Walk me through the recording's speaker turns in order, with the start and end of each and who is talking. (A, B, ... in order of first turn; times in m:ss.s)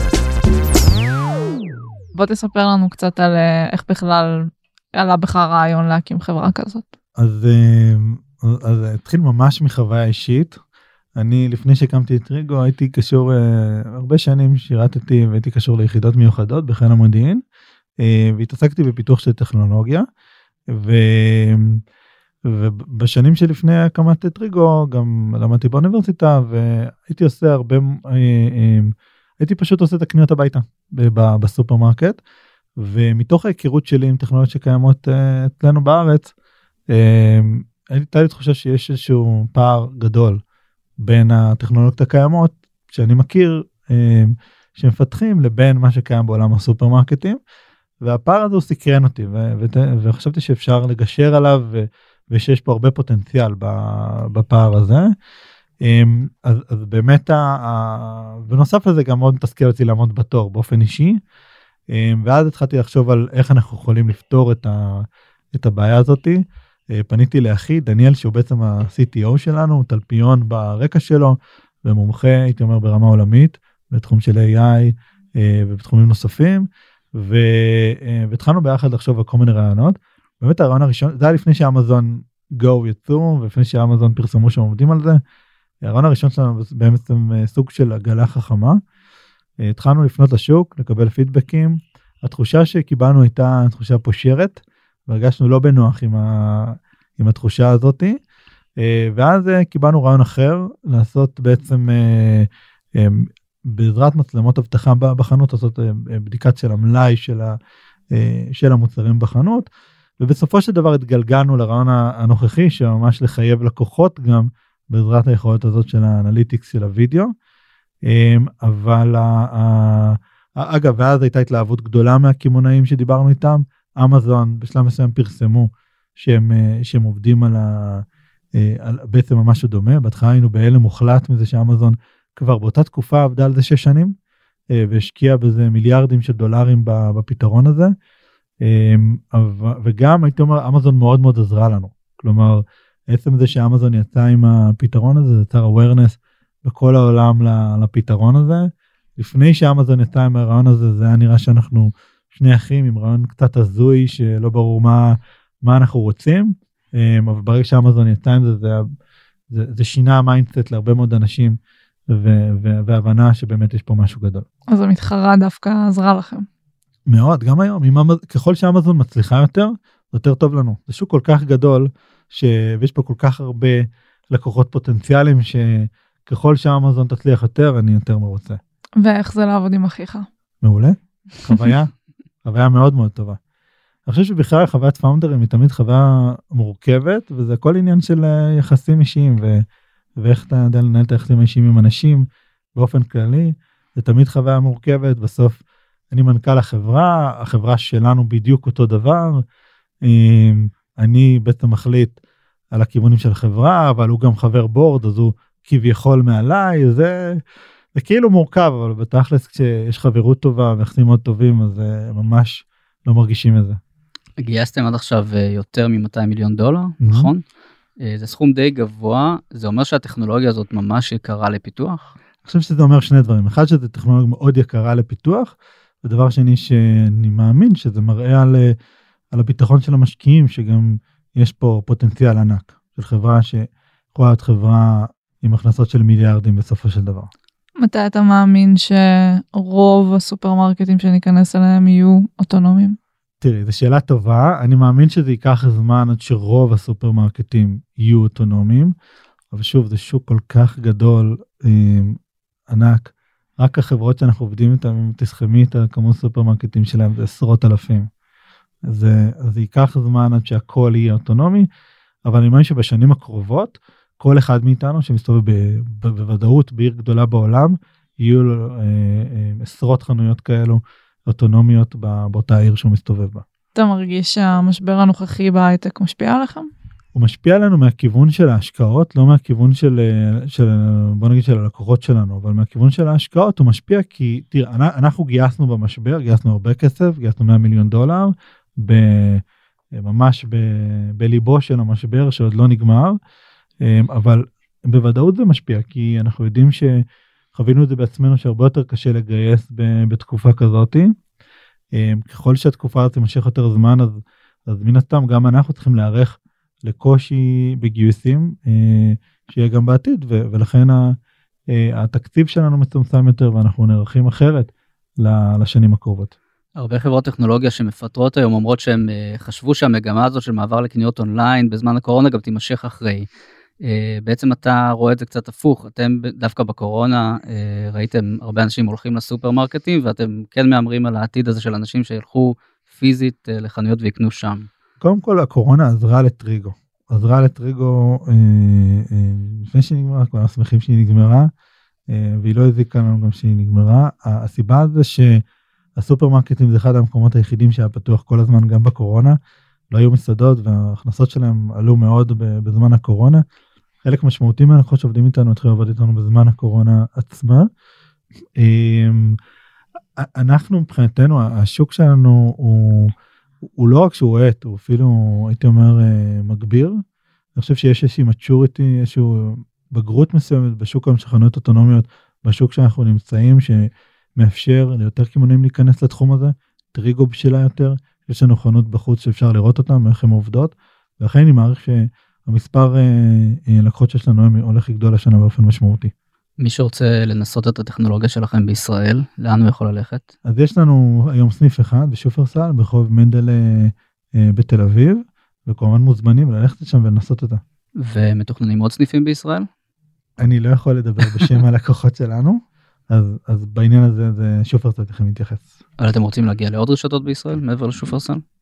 0:02.1-0:06.9 A
0:07.2-0:10.6 B
0:11.2-0:17.4 B
0:18.0-0:20.0 B
0:20.7-0:21.8 B
0:22.4-0:32.2 B
0:32.8-0:36.3 B
0:36.9-0:40.4 B
0:41.0-0:47.4 B
0:48.0-0:55.1 B
0:55.8-1:01.2 B
1:01.9-1:25.2 B
1:25.8-1:28.8 B
1:29.6-1:38.2 B
1:38.8-1:47.5 B
1:48.1-1:49.6 B
1:50.2-1:57.3 B
1:58.0-2:14.1 B
2:14.7-2:17.9 B
2:18.6-2:38.8 B
2:39.5-2:41.6 B
2:42.1-2:44.4 B
2:44.7-2:46.5 A
2:47.1-2:58.6 B
2:59.0-3:00.3 A
3:00.6-3:01.9 B
3:02.4-3:03.4 B
3:04.1-3:09.6 B
3:10.2-3:15.6 B
3:16.1-3:19.4 B
3:20.0-3:22.2 B
3:22.7-3:27.4 B
3:27.9-3:33.8 B
3:34.4-3:37.4 C
3:37.0-3:37.3 B
3:38.0-3:42.1 C
3:42.4-3:48.7 B
3:49.3-3:57.3 B
3:57.8-4:03.0 A
4:03.4-4:08.9 B
4:09.5-4:12.2 B
4:12.7-4:18.1 B
4:18.9-4:21.7 B
4:22.2-4:33.4 B
4:33.7-4:36.7 A
4:37.1-4:53.2 B
4:53.8-5:01.1 B
5:01.9-5:11.2 B
5:11.7-5:16.3 B
5:16.8-5:23.3 C
5:23.8-5:34.7 C
5:35.0-5:41.5 B
5:42.1-5:45.4 B
5:46.0-5:49.4 B
5:49.9-5:53.4 B
5:54.0-5:57.7 B
5:58.6-5:59.4 B
6:00.2-6:03.1 B
6:03.7-6:07.0 B
6:07.6-6:26.1 B
6:26.6-6:30.3 C
6:30.4-6:37.6 B
6:38.0-6:39.7 C
6:40.4-6:45.7 B
6:41.2-6:41.6 C
6:46.0-6:48.4 C